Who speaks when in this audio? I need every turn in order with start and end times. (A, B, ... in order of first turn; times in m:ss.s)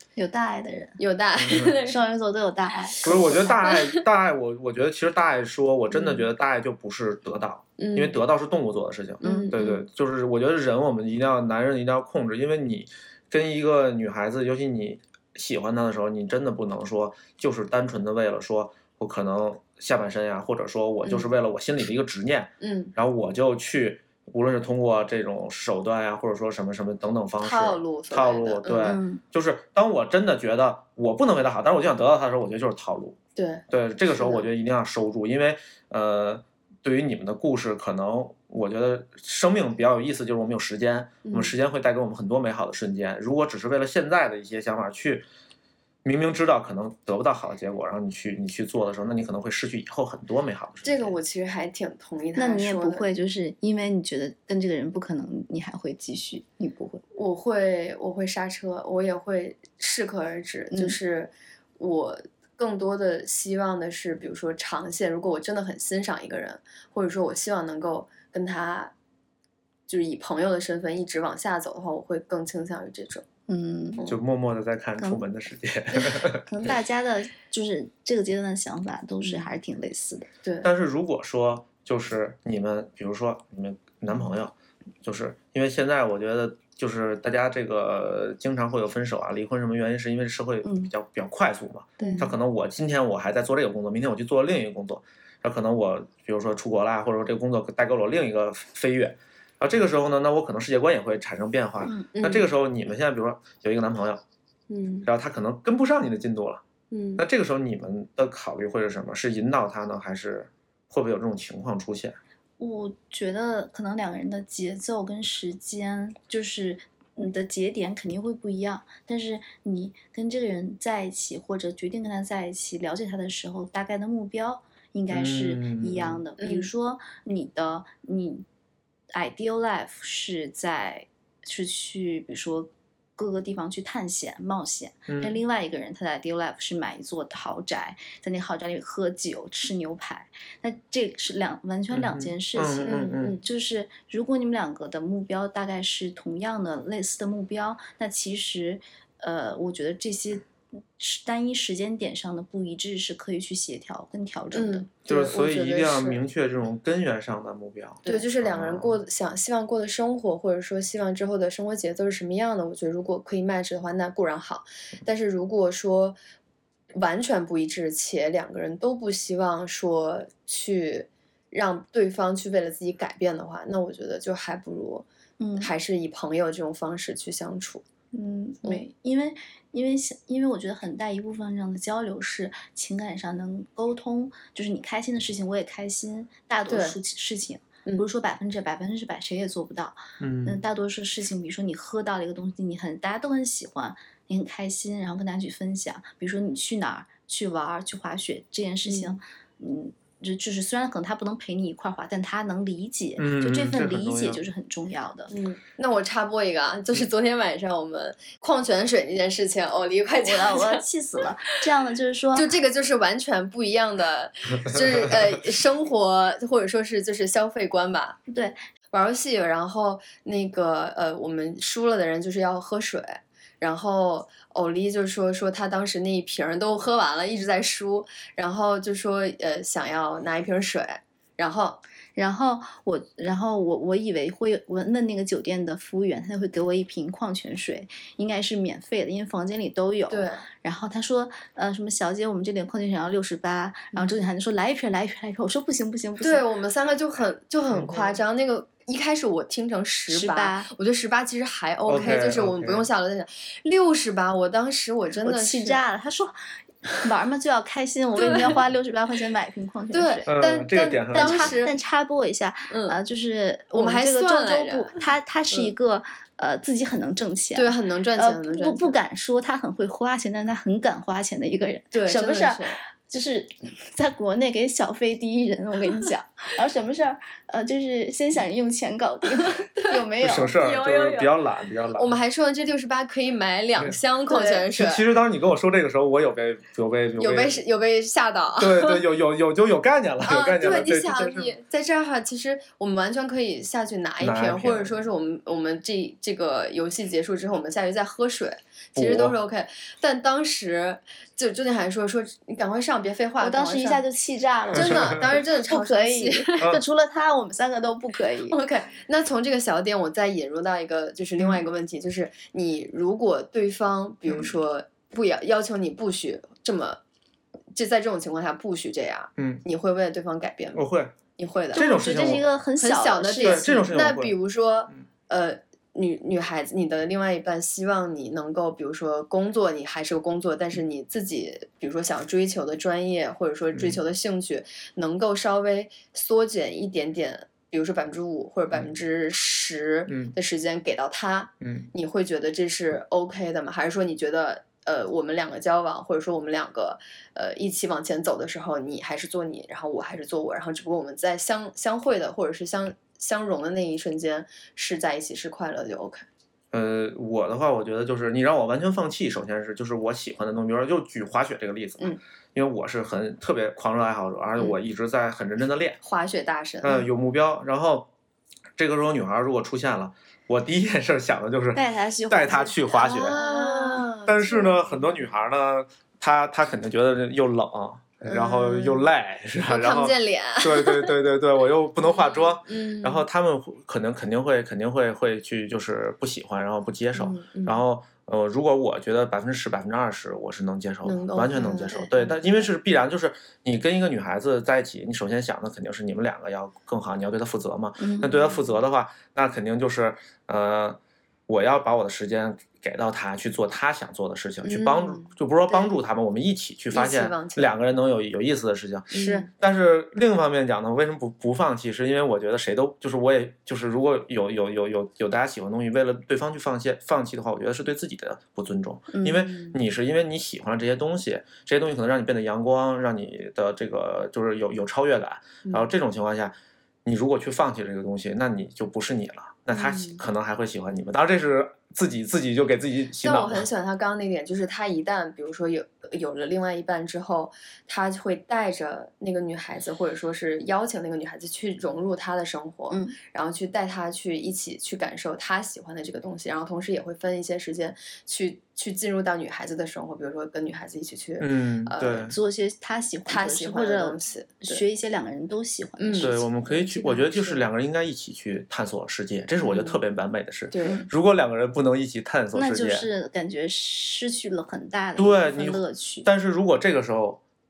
0:00.2-0:01.0 A
0:01.0-0:02.0 B
0:01.4-0:01.8 C
0:01.8-0:03.6 A
0:03.0-0:04.0 B
0:03.0-0:33.2 C
0:05.9-0:06.3 B
0:07.8-0:08.2 B
0:09.2-0:09.8 B
0:09.2-0:09.6 A
0:21.0-0:21.3 B
0:22.6-0:22.9 B
0:27.4-0:29.0 B
0:28.8-0:29.2 A
0:33.4-0:34.5 B
0:33.7-0:45.2 C
0:41.2-0:41.5 B
0:46.0-0:51.2 C
0:50.8-0:53.1 B
0:52.4-0:57.0 A
0:57.2-1:08.9 B
1:09.9-1:13.2 B
1:13.5-1:14.0 A
1:14.1-1:16.8 C
1:15.0-1:15.2 A
1:16.0-1:20.3 A
1:19.2-1:19.5 B
1:20.4-1:20.7 B
1:20.6-1:44.2 C
1:30.6-1:30.9 A
1:32.0-1:32.3 B
1:42.1-1:42.5 B
1:44.7-1:45.1 B
1:45.1-1:46.6 C
1:46.9-1:47.2 B
1:47.2-1:52.2 C
1:52.6-2:08.5 A
2:05.1-2:06.2 C
2:06.4-2:06.7 B
2:09.1-2:30.5 A
2:15.1-2:15.4 C
2:21.9-2:23.4 C
2:22.8-2:23.4 B
2:31.0-2:34.9 A
2:34.5-2:36.2 B
2:35.1-2:39.0 C
2:38.1-2:46.2 B
2:47.0-2:55.1 B
2:55.4-2:55.7 A
2:55.6-2:57.8 B
2:58.1-3:25.3 A
3:06.7-3:07.0 B
3:10.2-3:10.6 C
3:18.9-3:19.2 B
3:23.2-3:24.4 C
3:25.3-3:30.8 B
3:30.2-3:32.5 A
3:32.4-3:38.2 B
3:38.3-3:38.6 A
3:38.9-3:51.8 B
3:52.2-4:06.4 A
4:00.1-4:00.4 B
4:03.9-4:04.2 B
4:06.2-4:15.8 B
4:07.7-4:08.0 C
4:10.1-4:10.7 A
4:11.9-4:12.9 C
4:15.2-4:16.4 A
4:16.9-4:20.3 A
4:18.2-4:18.6 B
4:19.9-4:21.7 B
4:20.3-4:21.6 C
4:21.1-4:40.6 A
4:22.7-4:23.0 B
4:23.7-4:25.0 B
4:27.6-4:29.0 B
4:31.9-4:32.8 B
4:39.8-4:41.4 B
4:40.2-4:42.2 C
4:42.0-4:45.1 B
4:44.3-4:44.6 A
4:44.7-4:47.6 C
4:47.2-4:49.0 B
4:48.6-4:51.6 C
4:50.2-5:04.0 B
4:54.2-4:55.0 C
4:59.0-4:59.3 C
5:03.4-5:08.6 A
5:04.7-5:06.6 B
5:04.7-5:05.2 C
5:08.5-5:17.0 B
5:17.7-5:20.8 B
5:19.4-5:19.6 C
5:20.8-5:21.1 C
5:21.4-5:56.3 B
5:21.7-5:22.5 C
5:21.7-5:23.8 A
5:23.4-5:24.4 C
5:40.1-5:40.4 C
5:41.6-5:41.9 C
5:56.7-6:06.0 C
6:06.0-6:07.1 B
6:06.8-6:08.1 C
6:08.8-6:13.4 C
6:11.8-6:14.1 A
6:13.2-6:15.3 B
6:14.3-7:06.5 C
6:18.2-6:19.1 B
6:19.7-6:21.2 B
6:22.0-6:23.2 B
6:27.2-6:27.8 B
6:31.0-6:32.7 B
6:38.0-6:38.4 A
6:44.6-6:45.9 B
6:46.9-6:47.7 B
6:49.1-6:49.5 B
6:49.1-6:49.5 A
6:59.1-6:59.5 A
6:59.5-6:59.8 B
7:07.0-7:13.7 C
7:09.7-7:10.2 B
7:13.2-7:32.3 B
7:22.9-7:23.2 A
7:31.4-7:32.4 C
7:32.3-7:36.5 A
7:33.3-7:34.8 B
7:36.0-7:37.7 B
7:36.2-7:43.1 C
7:39.6-7:40.0 B
7:40.7-7:41.0 B
7:42.5-7:46.3 A
7:45.2-7:47.4 C